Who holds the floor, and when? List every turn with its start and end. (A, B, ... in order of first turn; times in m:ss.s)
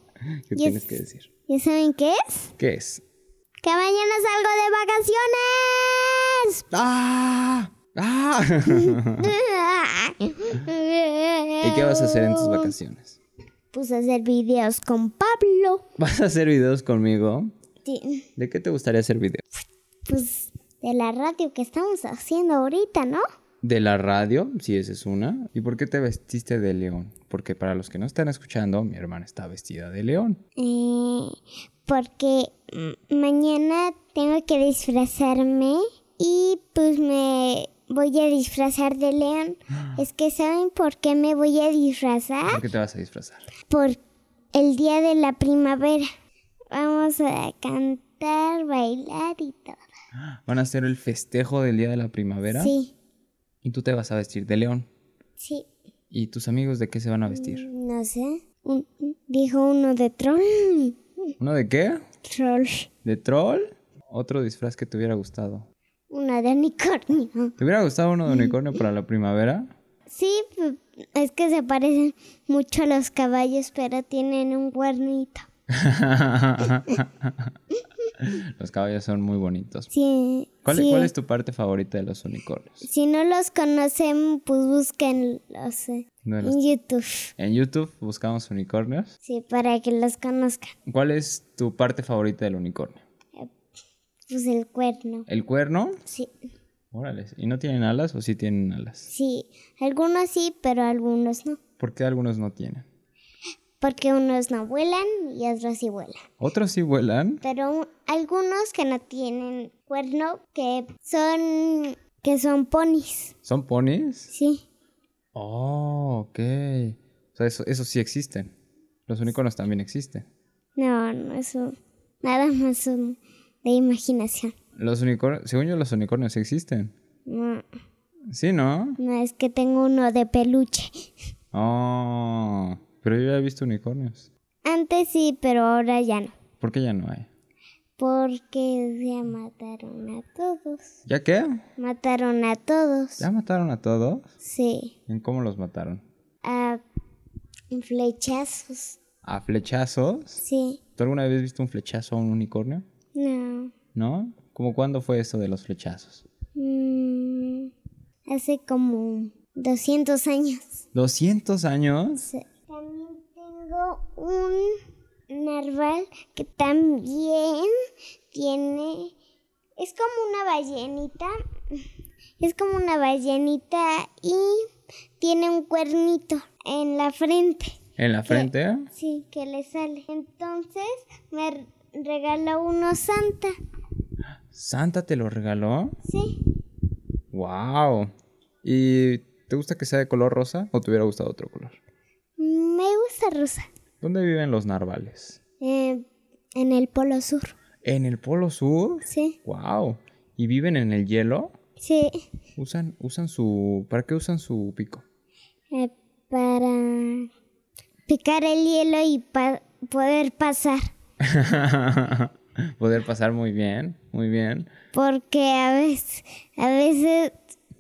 0:00.5-0:01.3 A
0:00.6-0:02.5 B
0:02.6-0:03.0 A
0:03.6-0:06.6 B
0:06.7-0:09.3 A
0:08.7-0:12.7 B
0:11.6-0:13.2 A
0:13.7-0:15.8 B
0:16.0-0:17.5 A
0:17.8-0:18.3 B
0:18.4-0:19.4 A
0:20.0-0:23.2 B
0:23.6-0:30.4 A
0:30.6-0:42.6 B
0:42.5-0:43.4 A
0:43.7-0:44.0 B
0:44.5-0:46.0 B
0:46.7-0:49.8 B
0:50.1-0:52.7 A
0:52.5-0:52.9 B
0:53.6-0:54.9 A
0:55.4-0:55.6 B
0:56.1-0:57.7 A
0:57.3-1:01.0 B
1:01.4-1:02.0 A
1:02.2-1:02.9 B
1:03.0-1:05.7 A
1:06.1-1:07.6 B
1:07.6-1:09.7 A
1:08.3-1:08.6 B
1:10.1-1:15.4 B
1:15.7-1:17.4 A
1:18.2-1:19.9 A
1:19.9-1:21.1 B
1:20.6-1:22.8 A
1:22.8-1:27.3 B
1:26.2-1:26.6 A
1:27.4-1:29.1 A
1:29.2-1:30.7 B
1:30.9-1:33.0 A
1:34.3-1:35.3 B
1:35.3-1:36.0 A
1:36.0-1:36.3 B
1:36.9-1:39.1 A
1:39.1-1:41.6 B
1:41.8-1:42.8 A
1:43.8-1:46.2 B
1:46.4-1:47.4 A
1:47.4-1:53.3 B
1:53.4-1:54.3 A
1:54.3-1:54.6 B
1:55.3-1:58.5 A
1:59.1-2:00.2 A
2:00.8-2:04.5 B
2:04.8-2:06.9 A
2:07.3-2:07.6 B
2:08.3-2:09.0 A
2:09.0-2:11.1 B
2:11.5-2:14.3 A
2:14.6-2:16.3 B
2:16.6-2:17.3 A
2:18.0-2:20.9 B
2:21.1-2:21.6 A
2:21.8-2:23.2 B
2:23.2-2:24.3 A
2:24.4-2:24.9 B
2:25.1-2:26.0 A
2:26.4-2:26.8 B
2:27.7-2:29.0 B
2:29.2-2:30.4 A
2:30.4-2:30.8 B
2:31.0-2:32.8 A
2:33.1-2:33.7 B
2:33.9-2:36.2 A
2:36.5-2:37.7 B
2:38.3-2:40.8 B
2:40.9-2:42.3 A
2:42.2-2:47.7 B
2:48.3-2:49.1 B
2:49.8-2:51.8 B
2:52.4-2:54.6 B
2:55.2-2:57.8 B
2:58.0-2:58.9 A
2:58.3-3:03.5 B
3:04.5-3:06.0 A
3:06.0-3:06.4 B
3:07.3-3:08.1 A
3:08.6-3:11.8 A
3:12.4-3:13.7 B
3:14.0-3:15.4 A
3:15.6-3:16.0 B
3:16.6-3:17.5 B
3:17.8-3:21.5 A
3:19.1-3:19.4 B
3:21.8-3:22.2 B
3:22.6-3:25.0 A
3:25.7-3:27.3 B
3:28.1-3:30.9 B
3:31.2-3:34.7 A
3:34.9-3:37.4 B